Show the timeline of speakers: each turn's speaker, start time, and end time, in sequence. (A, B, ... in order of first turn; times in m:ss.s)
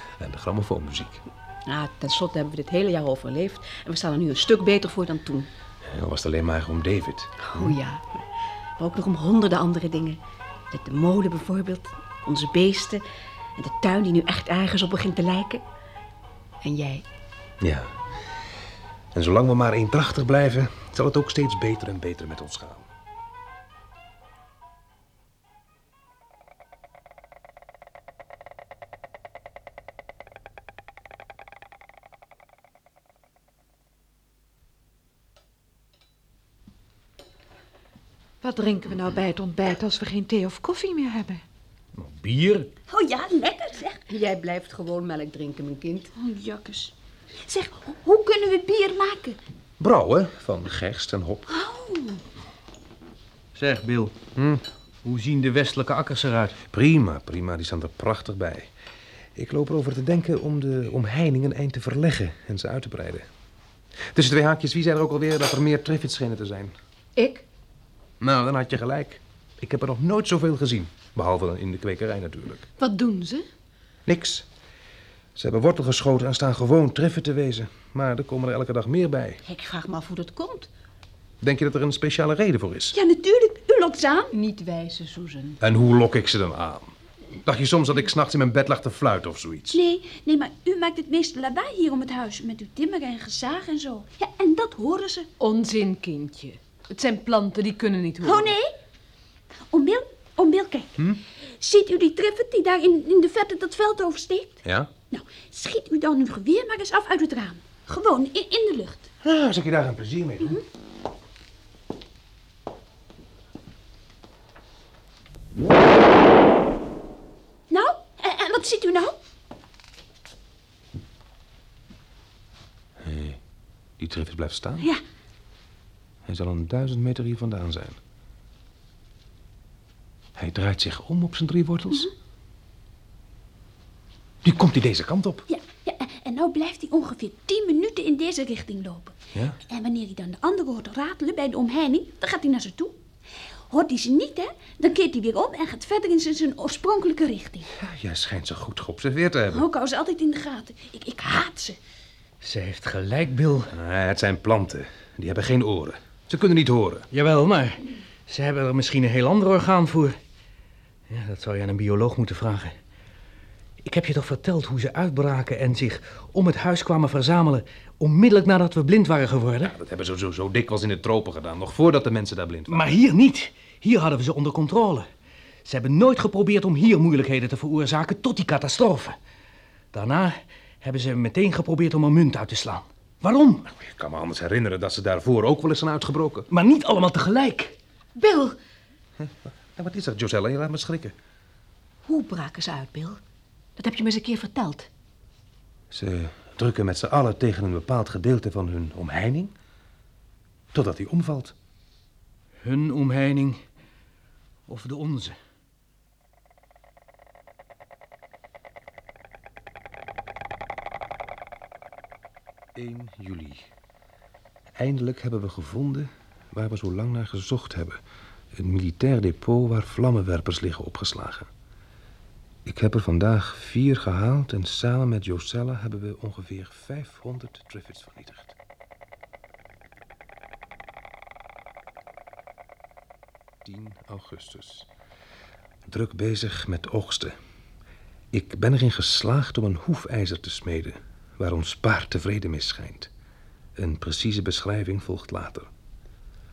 0:00.2-0:01.2 A
0:01.7-0:05.5 B
0:05.8-0:07.8 A
0:07.4-0:08.2 B
0:08.8-0:10.2 B
0:10.7-0:13.0 B
0:13.6-0:15.6 B
0:16.6-0:17.0 B
0:17.6-0:18.0 A
0:19.1-0:22.9 A
0:38.4-0:41.4 C
0:42.0-0:42.7 D
0:42.9-0:44.0 E
0:44.1-0:46.1 B
0:46.2-0:46.9 E
0:47.4-0:49.4 E
0:49.8-0:51.5 A
0:51.5-0:52.2 E
0:53.6-0:54.2 D
0:54.4-0:54.6 A
0:55.0-0:56.6 D
0:56.7-0:58.7 A
0:59.4-1:03.3 A
1:04.1-1:06.8 A
1:07.2-1:07.4 B
1:08.2-1:12.7 A
1:12.8-1:13.5 B
1:14.1-1:14.5 A
1:15.4-1:19.4 A
1:19.4-1:20.7 B
1:21.4-1:23.0 A
1:22.9-1:24.3 E
1:24.3-1:25.6 B
1:25.6-1:26.9 A
1:27.4-1:29.8 A
1:29.7-1:35.3 E
1:35.4-1:38.5 F
1:38.2-1:38.7 E
1:39.7-1:40.9 E
1:41.6-1:49.1 E
1:44.6-1:44.9 A
1:49.2-1:50.6 A
1:57.7-1:59.2 E
2:03.0-2:03.4 A
2:04.0-2:04.9 A
2:06.3-2:08.0 A
2:10.4-2:12.1 A
2:14.4-2:15.5 A
2:15.5-2:19.2 E
2:19.7-2:23.0 E
2:23.7-2:27.7 E
2:27.7-2:29.6 A
2:29.5-2:31.8 E
2:32.4-2:33.7 D
2:33.7-2:37.1 A
2:37.1-2:40.2 D
2:41.1-2:42.8 D
2:43.8-2:49.7 D
2:49.6-2:52.9 A
2:52.7-2:55.1 D
2:55.6-2:59.2 D
2:59.9-3:03.7 D
3:03.7-3:06.5 A
3:06.5-3:07.8 D
3:08.2-3:08.6 B
3:09.2-3:11.2 A
3:12.1-3:13.2 B
3:13.8-3:14.9 B
3:15.9-3:19.5 A
3:20.7-3:21.6 A
3:22.6-3:23.6 D
3:24.7-3:25.4 D
3:32.8-3:33.7 A
3:34.8-3:38.0 A
3:38.5-3:41.5 A
3:42.6-3:48.6 A
3:53.6-3:54.9 A
3:55.9-3:57.4 A
3:58.3-4:03.1 A
4:03.8-4:05.7 A